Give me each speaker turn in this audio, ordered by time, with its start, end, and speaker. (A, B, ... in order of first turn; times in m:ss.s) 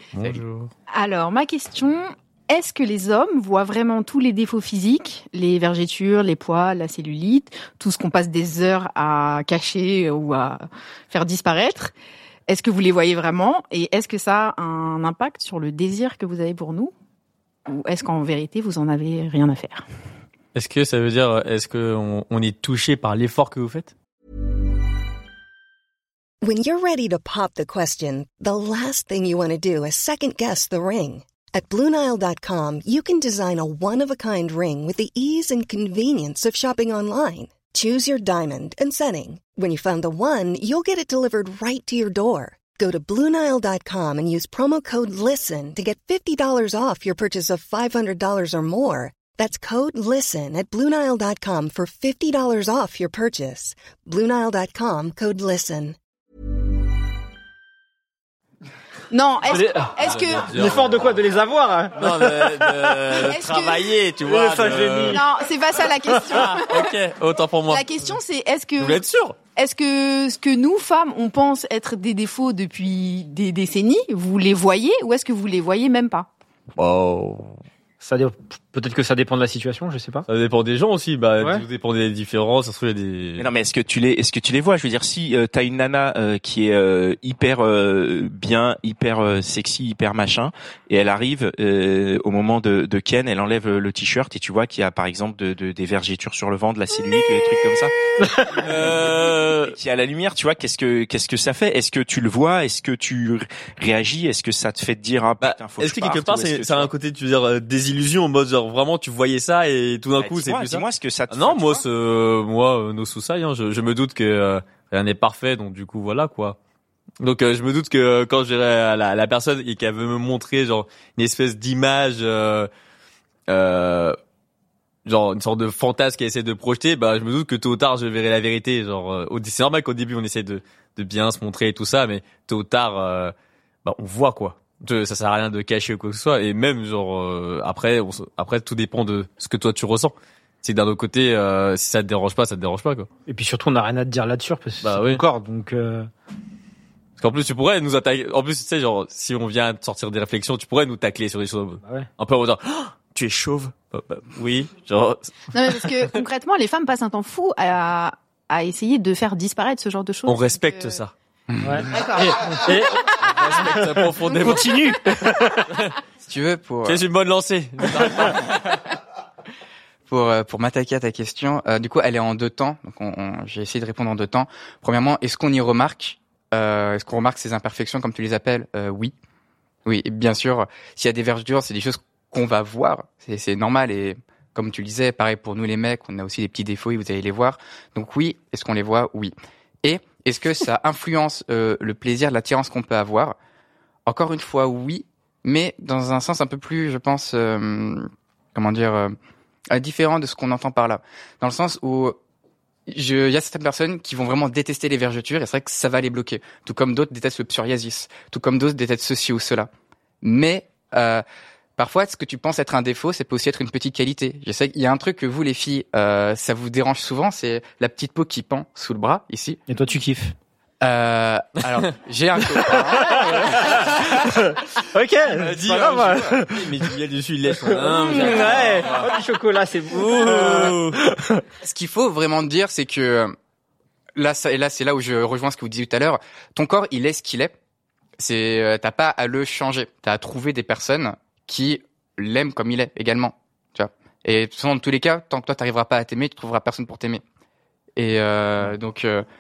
0:00.2-0:00.7 A
0:00.9-0:11.9 B
0:12.5-0:16.9 B
0:17.7-0:19.8 B
0:20.6-0:23.9 A
0:26.4-0:56.0 C
0:59.1-1:00.5 B
0:59.5-1:03.1 D
0:59.9-1:01.3 A
1:02.0-1:05.2 A
1:03.1-1:03.9 B
1:04.2-1:05.2 D
1:05.1-1:07.0 B
1:06.1-1:08.1 A
1:06.1-1:06.4 D
1:07.7-1:09.0 B
1:08.8-1:09.4 A
1:09.6-1:16.3 B
1:16.8-1:17.5 A
1:18.0-1:20.3 D
1:20.3-1:23.5 A
1:21.4-1:21.6 D
1:23.4-1:37.9 E
1:38.5-1:46.9 E
1:38.6-1:39.7 A
1:45.4-1:56.6 A
1:50.2-1:51.8 E
1:57.2-2:02.7 A
2:03.5-2:04.2 A
2:05.1-2:13.3 A
2:13.8-2:23.1 A
2:23.3-2:26.1 D
2:24.8-2:25.2 A
2:27.2-2:35.9 A
2:31.8-2:32.1 D
2:35.5-2:41.0 B
2:40.3-2:41.1 A
2:41.5-2:41.9 F
2:41.6-2:43.0 D
2:41.9-2:43.2 B
2:43.2-2:46.0 A
2:43.7-2:45.7 D
2:46.2-2:47.0 F
2:46.8-2:48.4 A
2:48.2-2:48.6 F
2:50.1-2:59.1 F
2:59.9-3:13.4 F
3:14.1-3:19.1 F
3:19.7-3:22.2 F
3:22.9-3:29.7 F
3:30.2-3:31.2 F
3:31.8-3:39.6 F
3:39.7-3:40.3 D
3:40.8-3:44.0 F
3:42.9-3:46.8 D
3:45.3-3:46.4 F
3:45.4-3:45.9 A
3:46.4-3:49.2 A
3:47.6-3:51.4 D
3:48.2-3:48.8 F
3:49.9-3:51.0 A
3:51.6-3:53.3 F
3:54.2-3:57.5 F
3:58.2-4:07.2 F
4:08.0-4:09.2 F